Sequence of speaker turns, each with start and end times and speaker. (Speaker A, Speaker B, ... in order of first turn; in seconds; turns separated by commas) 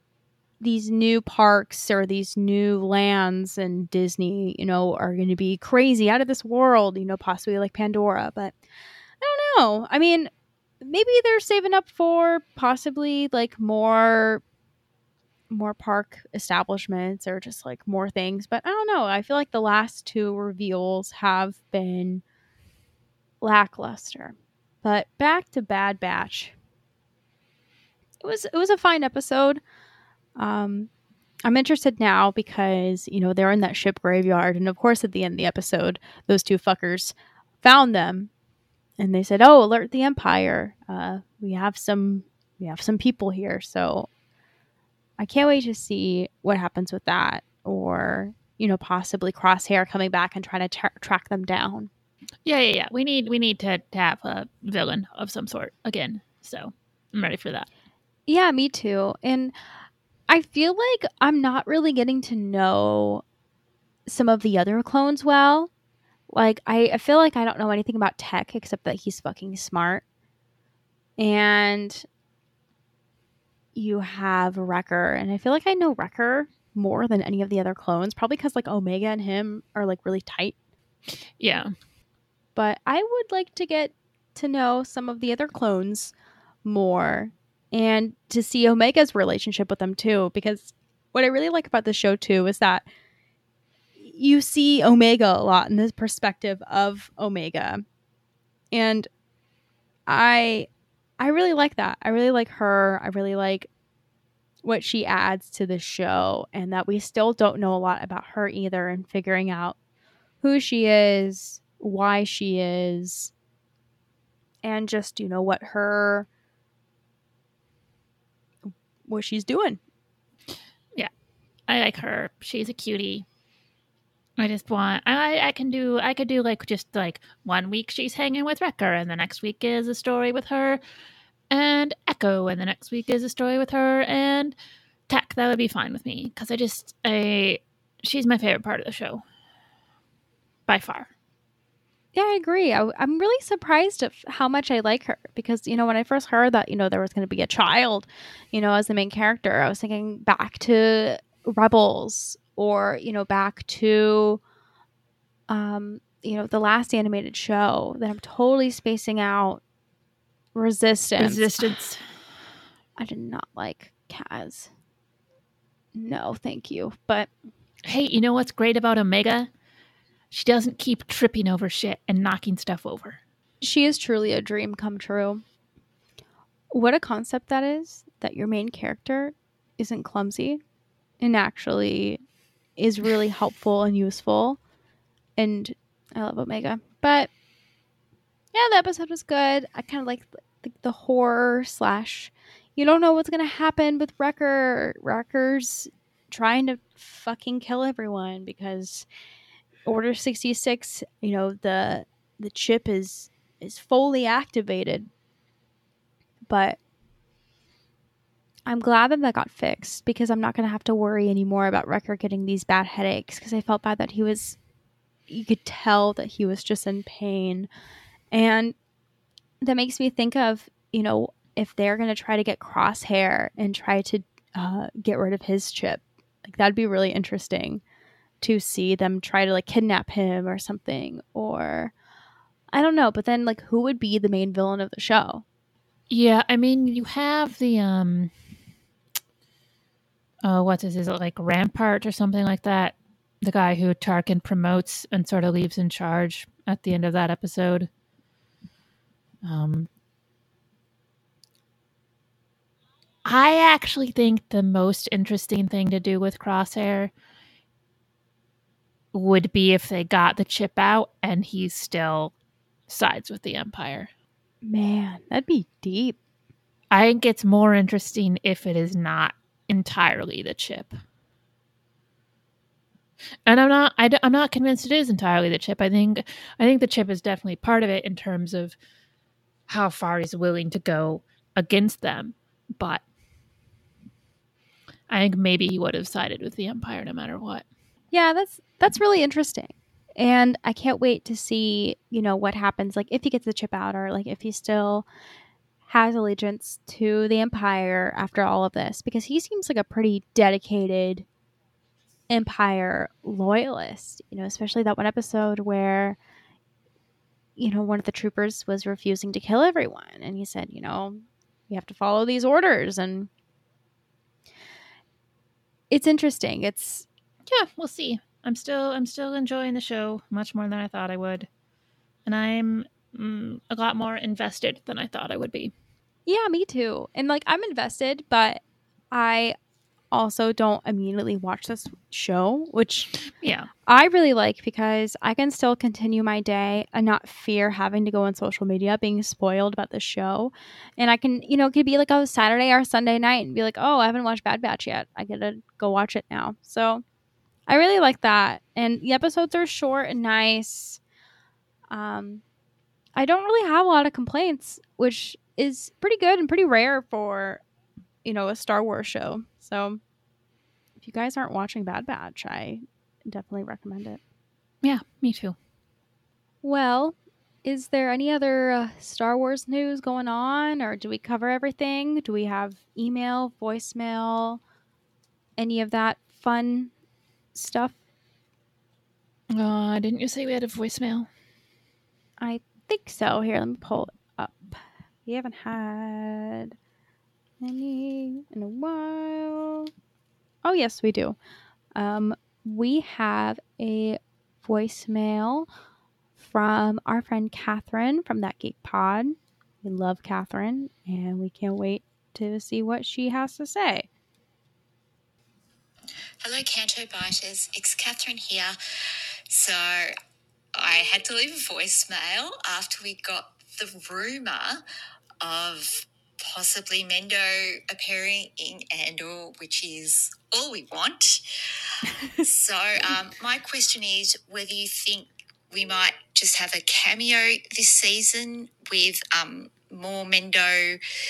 Speaker A: 0.6-8.5, Speaker A: 9.2-10.3, Speaker A: 10.8-14.4, Speaker A: 15.5-22.2, Speaker A: 23.4-26.5, Speaker A: 28.2-29.6, Speaker A: 30.4-30.9, Speaker A: 31.4-38.3, Speaker A: 39.0-44.1, Speaker A: 45.2-51.9, Speaker B: 52.4-57.7, Speaker A: 58.3-59.5, Speaker A: 60.3-63.2, Speaker A: 64.0-65.7, Speaker A: 66.3-70.0, Speaker A: 71.2-72.0, Speaker A: 73.7-80.5, Speaker B: 81.4-81.7, Speaker A: 82.5-92.8, Speaker A: 94.0-97.8, Speaker A: 98.7-99.1, Speaker A: 100.1-100.7, Speaker A: 101.2-103.7, Speaker A: 104.6-109.8, Speaker A: 110.4-113.3, Speaker A: 114.6-116.3, Speaker A: 119.1-119.8, Speaker B: 121.7-123.2, Speaker B: 124.4-130.8, Speaker B: 131.5-134.5, Speaker B: 135.1-139.2, Speaker B: 140.7-141.1, Speaker A: 142.1-154.4, Speaker A: 155.5-159.6, Speaker A: 160.5-161.8, Speaker B: 161.2-162.0, Speaker A: 163.0-164.7, Speaker A: 165.9-167.3, Speaker B: 167.8-169.5, Speaker B: 170.3-173.2, Speaker A: 173.6-175.4, Speaker A: 176.7-180.6, Speaker A: 181.2-182.2, Speaker A: 182.8-184.6, Speaker A: 185.4-187.3, Speaker A: 188.5-199.1, Speaker A: 199.8-205.1, Speaker A: 206.5-206.8, Speaker A: 208.7-214.6, Speaker A: 215.3-217.7, Speaker A: 218.3-218.7, Speaker A: 219.6-227.8, Speaker A: 228.4-231.9, Speaker A: 232.7-235.4, Speaker B: 236.1-238.3, Speaker B: 240.4-247.9, Speaker B: 249.4-249.9, Speaker B: 253.2-257.1, Speaker B: 259.1-262.3, Speaker B: 262.9-264.1, Speaker A: 264.6-266.2, Speaker B: 266.9-271.0, Speaker B: 273.4-278.8, Speaker B: 279.7-283.0, Speaker B: 285.1-287.6, Speaker A: 288.1-295.1, Speaker A: 295.9-301.2, Speaker A: 302.3-306.2, Speaker A: 307.6-313.3, Speaker A: 315.9-317.1, Speaker B: 317.5-321.5, Speaker B: 322.2-325.7, Speaker A: 326.2-329.6, Speaker A: 330.1-333.1, Speaker B: 333.4-333.7, Speaker A: 333.9-347.0, Speaker A: 347.7-351.0, Speaker A: 351.9-352.4, Speaker A: 353.1-357.6, Speaker A: 358.2-360.0, Speaker A: 361.0-364.2, Speaker B: 364.8-365.6, Speaker A: 366.6-374.6, Speaker A: 375.6-376.9, Speaker A: 377.5-378.0, Speaker B: 379.5-381.3, Speaker A: 382.4-386.7, Speaker A: 387.6-389.9, Speaker A: 390.6-391.4, Speaker A: 391.9-395.7, Speaker A: 396.4-404.1, Speaker C: 406.4-408.8, Speaker C: 409.5-410.1, Speaker C: 410.8-414.8, Speaker C: 415.4-421.4, Speaker C: 422.4-431.0